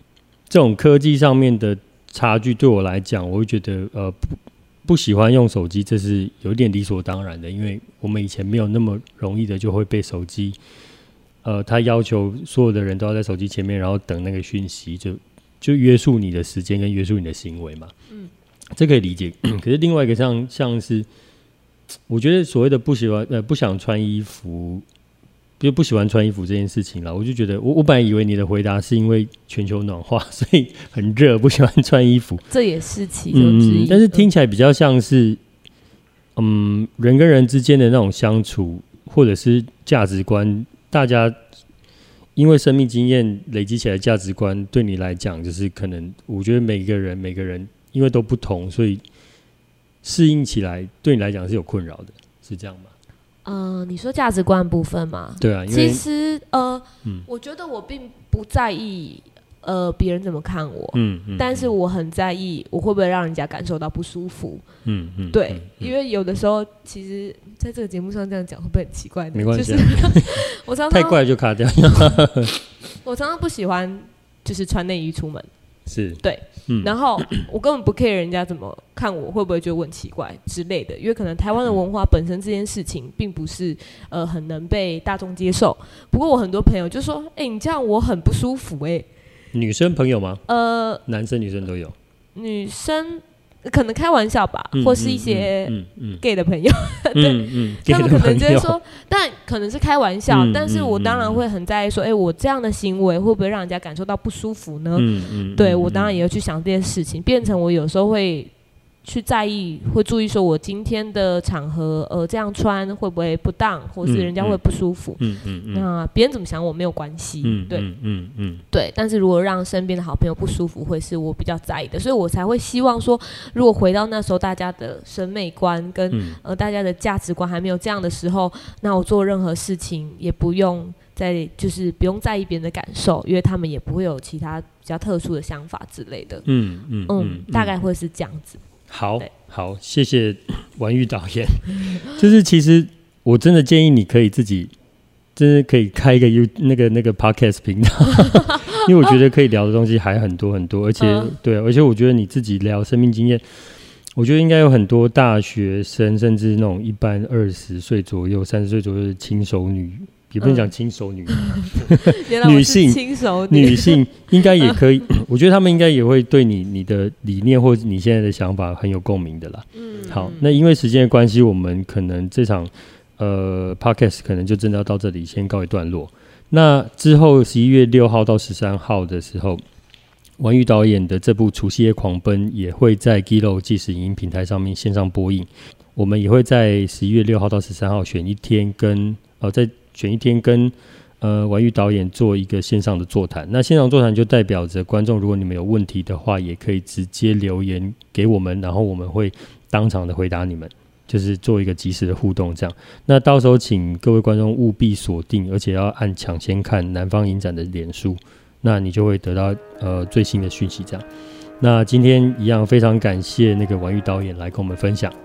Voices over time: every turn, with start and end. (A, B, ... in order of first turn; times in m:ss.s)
0:00.5-0:10.6 A
0:11.4-0:17.9 A
0:18.7-0:21.1 A
0:22.1-0:24.8 A
0:25.6-0:32.4 A
0:32.5-0:34.3 B
0:33.3-0:35.4 A
0:36.4-0:41.4 A
0:42.4-0:49.0 A
0:50.0-0:52.9 A
0:53.4-1:04.6 B
0:55.4-0:56.0 A
1:00.9-1:01.7 A
1:04.8-1:05.9 A
1:05.3-1:11.2 B
1:09.3-1:12.6 A
1:13.0-1:15.5 B
1:15.9-1:17.4 A
1:16.2-1:29.1 B
1:29.5-1:30.4 A
1:30.5-1:31.0 B
1:31.0-1:32.0 A
1:32.4-1:48.5 B
1:34.7-1:36.2 A
1:37.2-1:38.8 A
1:40.3-1:41.4 A
1:45.0-1:46.2 A
1:49.0-1:57.9 B
1:54.0-1:54.6 A
1:55.2-1:55.9 A
1:57.4-1:58.6 A
1:58.7-2:16.4 B
2:06.1-2:06.4 A
2:16.4-2:17.7 A
2:17.1-2:18.6 B
2:18.9-2:24.7 A
2:25.4-2:59.6 A
2:31.0-2:31.4 B
2:40.4-2:40.7 B
2:41.3-2:44.8 B
2:49.8-2:50.5 B
3:00.4-3:31.0 A
3:31.6-3:35.2 A